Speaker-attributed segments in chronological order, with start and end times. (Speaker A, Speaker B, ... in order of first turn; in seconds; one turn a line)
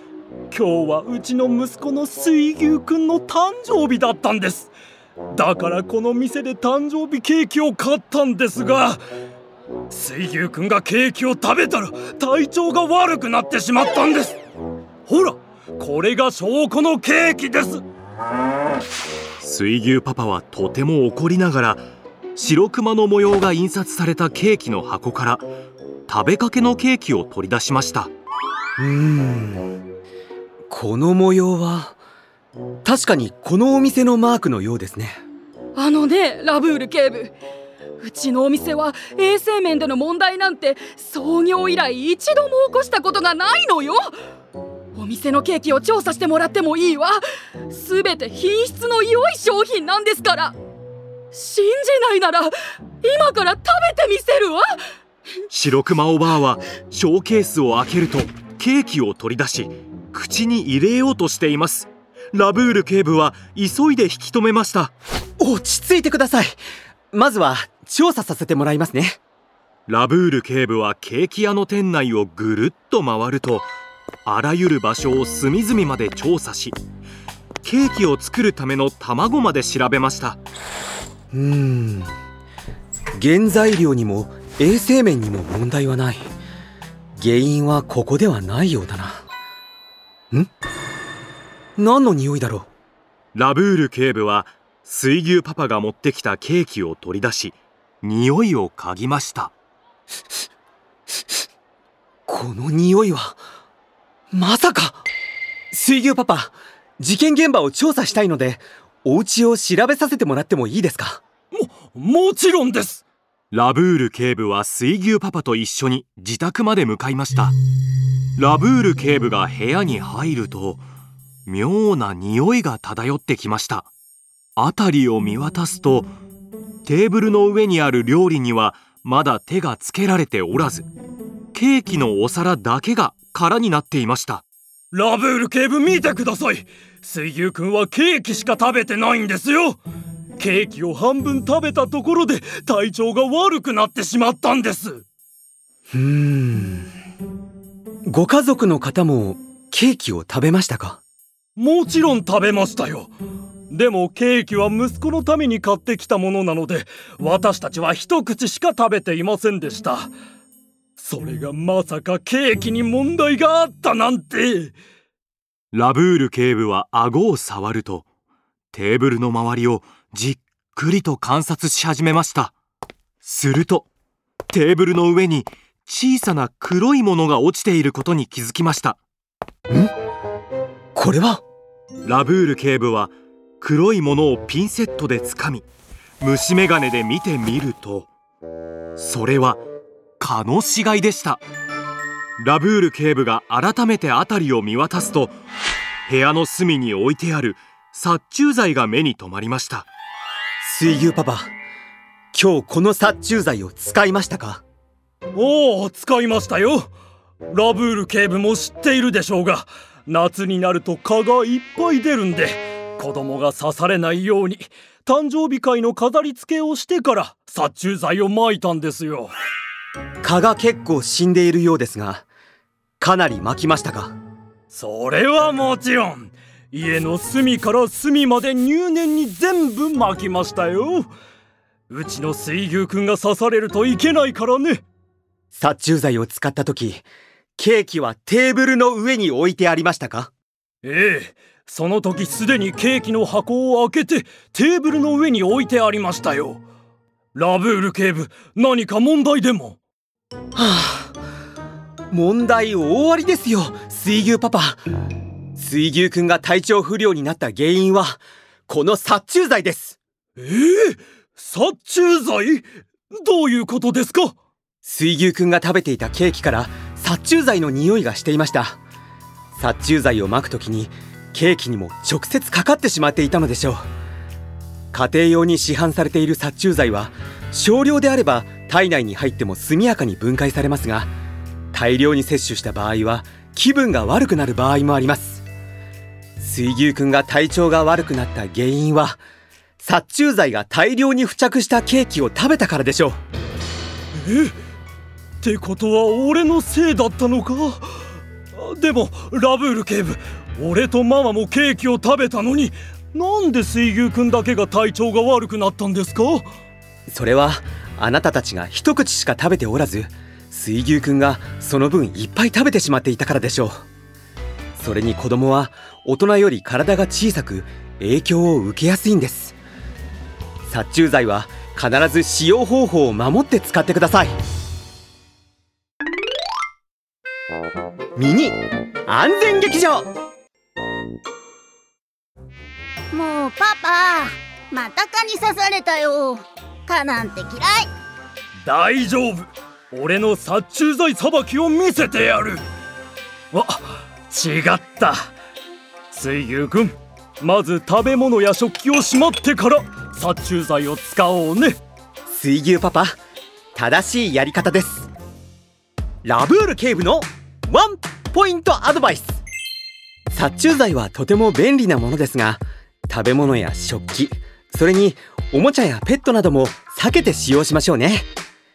Speaker A: 0.5-4.7
Speaker A: 5.3-9.0
Speaker A: 9.9-14.4
Speaker A: 15.1-17.8
Speaker B: 19.4-21.8
Speaker B: 22.4-25.5
Speaker B: 26.1-28.1
Speaker C: 28.8-29.8
Speaker C: 30.7-32.0
Speaker C: 32.8-35.2
Speaker D: 35.8-37.4
Speaker D: 38.0-44.1
Speaker D: 44.9-50.6
Speaker D: 51.3-54.8
Speaker B: 55.5-64.9
Speaker C: 65.4-66.6
Speaker C: 67.1-69.2
Speaker B: 69.9-73.7
Speaker B: 74.2-76.8
Speaker B: 77.6-80.4
Speaker C: 81.3-82.1
Speaker C: 83.2-86.3
Speaker C: 87.2-89.2
Speaker C: 91.8-92.7
Speaker B: 93.3-99.5
Speaker C: 102.3-103.4
Speaker C: 104.3-105.0
Speaker C: 105.7-111.2
Speaker A: 111.5-113.0
Speaker B: 113.5-117.5
Speaker B: 118.4-120.8
Speaker B: 121.5-123.9
Speaker B: 124.6-126.1
Speaker B: 126.8-130.9
Speaker B: 131.5-134.4
Speaker A: 134.9-139.8
Speaker A: 140.4-145.1
Speaker C: 145.9-146.9
Speaker C: 148.1-151.0
Speaker A: 151.6-153.1
Speaker A: 153.7-160.1
Speaker A: 161.0-164.7
Speaker B: 165.7-168.1
Speaker B: 168.7-172.5
Speaker B: 173.2-173.9
Speaker B: 174.5-179.0
Speaker C: 180.9-181.4
Speaker B: 182.0-185.6
Speaker B: 186.2-188.1
Speaker B: 189.0-189.6
Speaker B: 190.2-191.4
Speaker B: 192.4-195.3
Speaker B: 196.1-199.9
Speaker C: 200.6-201.5
Speaker C: 202.3-204.6
Speaker A: 205.3-206.9
Speaker A: 207.5-219.3
Speaker C: 220.2-222.2
Speaker C: 223.0-224.1
Speaker A: 224.7-231.1
Speaker A: 231.9-234.8
Speaker C: 235.5-237.1
Speaker C: 237.6-240.3
Speaker A: 240.8-246.6
Speaker A: 247.3-249.8
Speaker C: 250.6-251.1
Speaker C: 252.1-254.8
Speaker C: 255.6-260.0
Speaker A: 260.4-264.3
Speaker C: 264.8-268.8
Speaker C: 269.6-273.8
Speaker C: 274.9-281.1
Speaker C: 281.7-285.4
Speaker C: 286.4-289.2
Speaker C: 289.8-293.2
Speaker A: 294.1-294.6
Speaker A: 295.4-298.0
Speaker A: 298.5-306.5
Speaker C: 307.1-313.8
Speaker C: 314.8-319.6
Speaker C: 320.7-324.3
Speaker C: 328.2-330.1
Speaker E: 333.1-337.9
Speaker A: 338.6-342.7
Speaker A: 343.5-345.3
Speaker A: 346.1-351.8
Speaker C: 352.3-353.2
Speaker C: 353.8-355.1
Speaker C: 356.2-359.4
Speaker C: 360.3-368.3